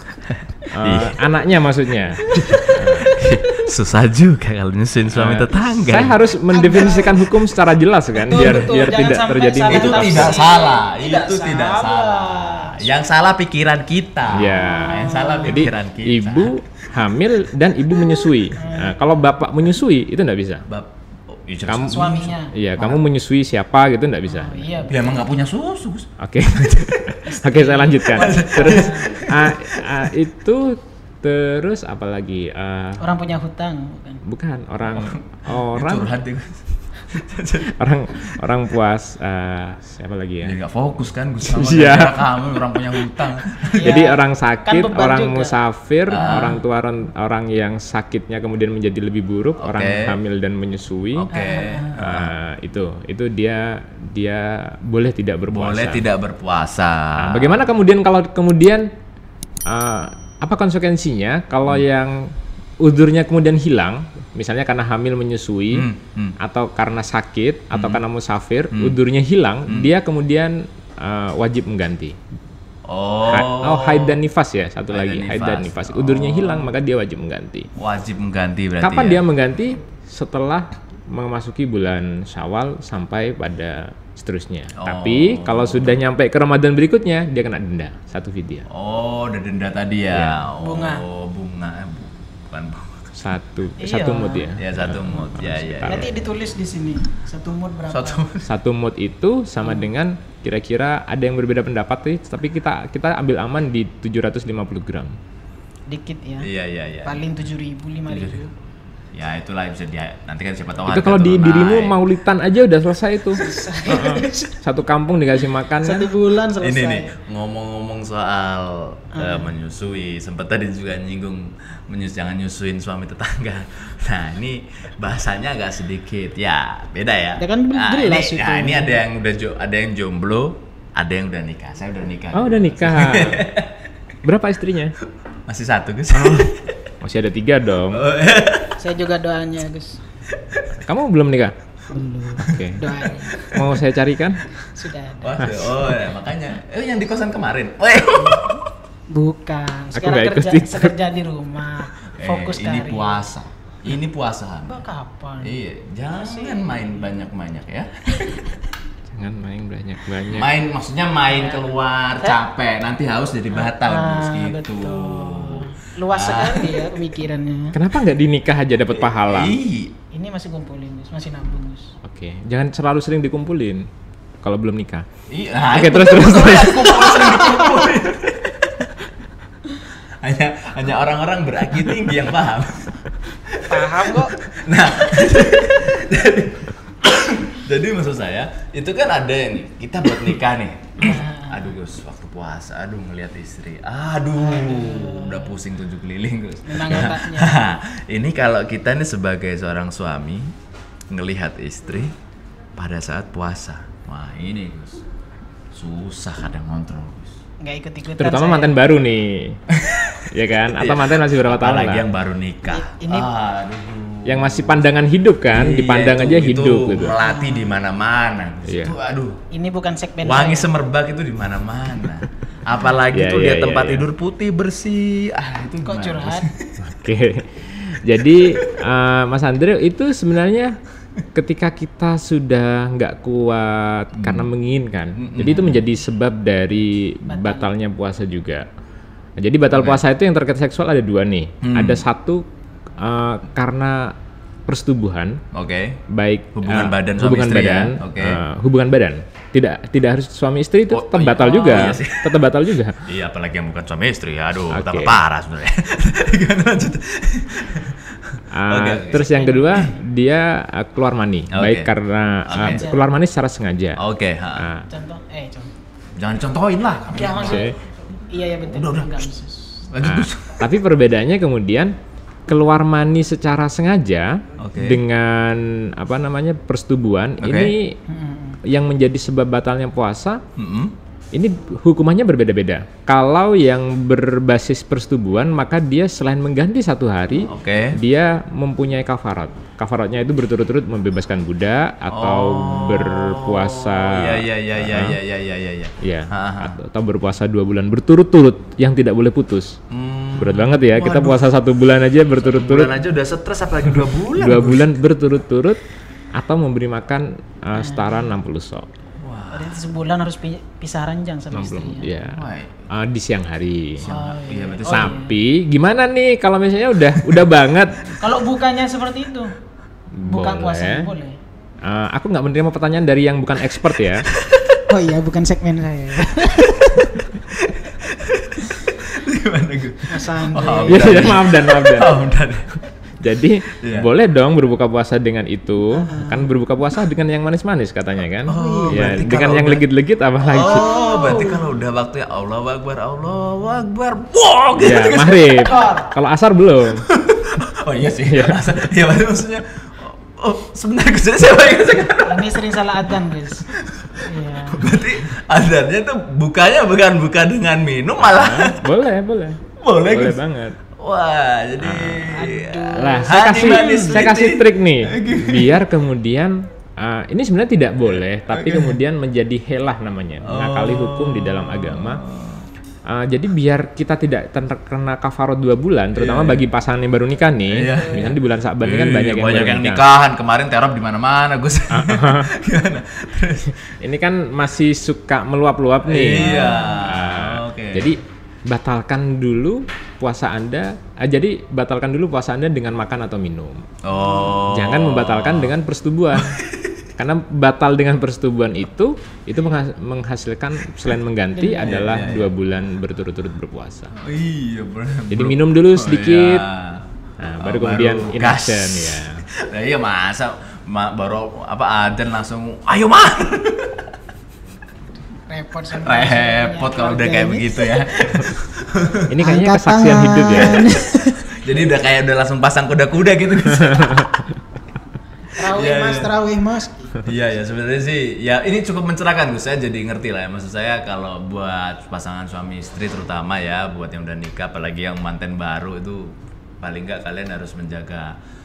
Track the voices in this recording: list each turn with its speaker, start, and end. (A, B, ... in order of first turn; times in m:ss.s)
0:00.3-0:01.2 A
0:00.7-0:03.2 B
0:02.3-0:06.2 A
0:05.1-0:10.4 B
0:06.5-0:07.3 C
0:08.2-0:12.9 C
0:08.3-0:08.7 A
0:09.7-0:17.1 A
0:14.3-0:20.6 B
0:14.6-0:15.6 C
0:18.6-0:19.0 C
0:20.7-0:23.0 A
0:21.7-0:24.8 B
0:21.9-0:22.5 C
0:24.3-0:25.1 C
0:24.9-0:26.1 A
0:26.2-0:33.0 B
0:27.3-0:29.2 C
0:28.1-0:30.1 A
0:33.0-0:34.2 C
0:34.2-0:36.1 B
0:34.9-0:37.7 A
0:37.8-0:40.6 B
0:40.4-0:44.0 A
0:41.4-0:42.2 B
0:43.8-0:45.6 C
0:43.8-0:51.3 B
0:46.1-0:46.6 A
0:49.6-0:50.2 A
0:51.1-0:52.3 A
0:51.3-0:51.9 C
0:52.0-0:56.0 B
0:55.5-0:57.7 A
0:57.2-0:58.9 B
0:59.7-1:02.2 B
1:02.8-1:05.9 B
1:05.7-1:06.4 A
1:06.4-1:12.2 B
1:07.7-1:08.0 A
1:08.7-1:09.0 A
1:12.9-1:14.2 A
1:13.3-1:17.7 B
1:14.9-1:16.7 A
1:17.8-1:19.2 A
1:18.8-1:28.7 B
1:24.8-1:26.0 A
1:28.7-1:33.2 A
1:30.1-1:30.4 B
1:30.6-1:31.0 C
1:33.2-1:36.1 B
1:33.8-1:34.5 C
1:34.6-1:36.1 A
1:35.8-1:38.2 C
1:37.9-1:38.5 A
1:38.4-1:45.2 B
1:39.6-1:39.9 C
1:45.9-1:46.5 C
1:46.4-1:47.2 A
1:47.0-1:48.5 C
1:48.1-1:48.4 A
1:49.1-1:52.0 A
1:50.9-1:56.1 B
1:53.4-1:54.5 C
1:55.8-1:57.1 C
1:56.6-2:13.7 A
1:59.2-1:59.5 C
2:07.4-2:09.0 C
2:12.3-2:13.5 B
2:14.2-2:14.9 B
2:15.5-2:16.7 A
2:16.1-2:18.1 B
2:17.9-2:18.8 A
2:18.8-2:20.0 C
2:20.4-2:20.7 A
2:20.8-2:21.5 B
2:21.9-2:23.3 C
2:22.4-2:22.9 B
2:23.3-2:23.7 A
2:23.5-2:24.4 B
2:24.7-2:25.9 C
2:25.2-2:28.6 A
2:28.2-2:28.6 C
2:29.1-2:33.2 C
2:29.9-2:31.0 B
2:32.2-2:34.8 A
2:34.7-2:35.6 C
2:35.4-2:38.6 A
2:36.1-2:37.1 C
2:39.1-2:40.5 B
2:40.3-2:47.0 A
2:41.3-2:41.6 C
2:43.5-2:47.8 C
2:47.7-2:49.6 B
2:48.9-2:49.9 A
2:50.1-2:51.9 C
2:52.0-2:53.8 B
2:54.4-2:55.1 B
2:55.3-2:58.7 A
2:55.7-2:57.1 B
2:56.8-2:57.9 C
3:00.2-3:20.5 A
3:03.7-3:04.4 C
3:11.0-3:11.6 C
3:14.4-3:15.5 C
3:16.7-3:17.6 C
3:21.1-3:22.1 A
3:22.8-3:25.0 A
3:25.7-3:27.4 A
3:27.6-3:28.8 C
3:28.2-3:29.6 B
3:29.7-3:30.2 A
3:30.3-3:32.0 B
3:30.8-3:34.9 A
3:32.7-3:33.3 C
3:34.2-3:37.2 B
3:35.5-3:39.4 A
3:37.2-3:37.7 C
3:38.7-3:39.0 B
3:39.5-3:40.7 C
3:40.2-3:46.8 A
3:43.1-3:44.1 B
3:45.8-3:46.5 C
3:46.8-3:50.7 B
3:51.3-3:58.7 B
3:54.2-3:54.5 A
3:55.2-3:55.9 A
3:57.3-3:57.7 C
3:59.4-4:02.4 B
3:59.7-4:00.0 A
4:01.6-4:02.0 A
4:03.0-4:04.1 B
4:04.7-4:05.4 B
4:05.5-4:06.0 A
4:06.1-4:13.0 B
4:06.5-4:08.4 A
4:10.9-4:12.4 A
4:11.4-4:12.0 C
4:13.0-4:19.9 A
4:14.7-4:15.2 B
4:18.5-4:24.0 B
4:19.2-4:19.9 C
4:21.5-4:21.9 A
4:22.5-4:22.8 A
4:22.5-4:23.0 C
4:24.0-4:24.7 A
4:24.6-4:24.9 B
4:24.9-4:25.7 C
4:26.2-4:27.7 A
4:27.1-4:27.7 C
4:27.4-4:27.7 B
4:28.3-4:29.9 C
4:28.6-4:29.3 A
4:29.9-4:30.7 A
4:30.0-4:31.9 B
4:32.5-4:37.9 B
4:34.6-4:35.0 A
4:37.4-4:37.7 A
4:38.1-4:38.6 C
4:38.7-4:40.4 B
4:40.6-4:40.9 A
4:41.3-4:55.2 B
4:47.5-4:48.0 A
4:52.1-4:56.8 A
4:56.0-4:59.8 B
4:59.9-5:01.5 A
5:00.4-5:03.0 B
5:02.4-5:05.0 A
5:04.4-5:05.8 B
5:06.4-5:08.9 B
5:07.7-5:08.2 C
5:09.2-5:09.8 A
5:09.5-5:12.1 C
5:11.5-5:14.0 B
5:12.2-5:12.9 A
5:14.0-5:15.2 A
5:14.0-5:15.4 C
5:14.8-5:18.2 B
5:18.2-5:19.5 C
5:20.2-5:21.1 B
5:20.3-5:21.4 C
5:21.8-5:24.3 B
5:24.4-5:24.7 A
5:24.9-5:27.2 C
5:27.4-5:32.7 A
5:30.1-5:31.4 C
5:30.9-5:32.2 B
5:33.2-5:40.9 B
5:33.8-5:34.1 A
5:35.9-5:36.5 C
5:38.5-5:39.9 A
5:38.5-5:39.1 C
5:40.4-5:45.7 A
5:40.5-5:41.6 C
5:44.8-5:47.0 B
5:45.6-5:46.1 C
5:47.1-5:52.5 A
5:48.3-5:48.6 B
5:52.3-5:53.7 C
5:53.7-5:58.9 A
5:54.2-5:54.9 C
5:58.2-6:00.8 B
5:59.8-6:00.4 A
6:01.0-6:05.9 A
6:01.8-6:02.3 B
6:02.3-6:04.3 C
6:03.0-6:12.2 B
6:08.5-6:09.0 A
6:10.4-6:12.7 A
6:13.1-6:20.0 B
6:16.2-6:16.6 A
6:17.7-6:23.8 A
6:18.0-6:18.3 C
6:21.9-6:22.5 B
6:24.0-6:33.8 B
6:26.0-6:28.1 A
6:26.3-6:27.0 C
6:34.0-6:35.7 A
6:34.6-6:36.6 B
6:36.3-6:37.0 A
6:37.2-6:44.1 B
6:41.5-6:42.2 C
6:41.8-6:42.5 A
6:44.2-6:47.0 A
6:45.3-6:46.6 B
6:47.4-6:49.5 B
6:47.6-6:54.1 A
6:55.5-6:58.0 C
6:55.9-6:59.2 A
6:59.3-7:00.9 B
6:59.4-7:01.4 C
7:01.2-7:04.4 A
7:05.6-7:07.2 C
7:05.6-7:06.3 A
7:07.2-7:18.4 A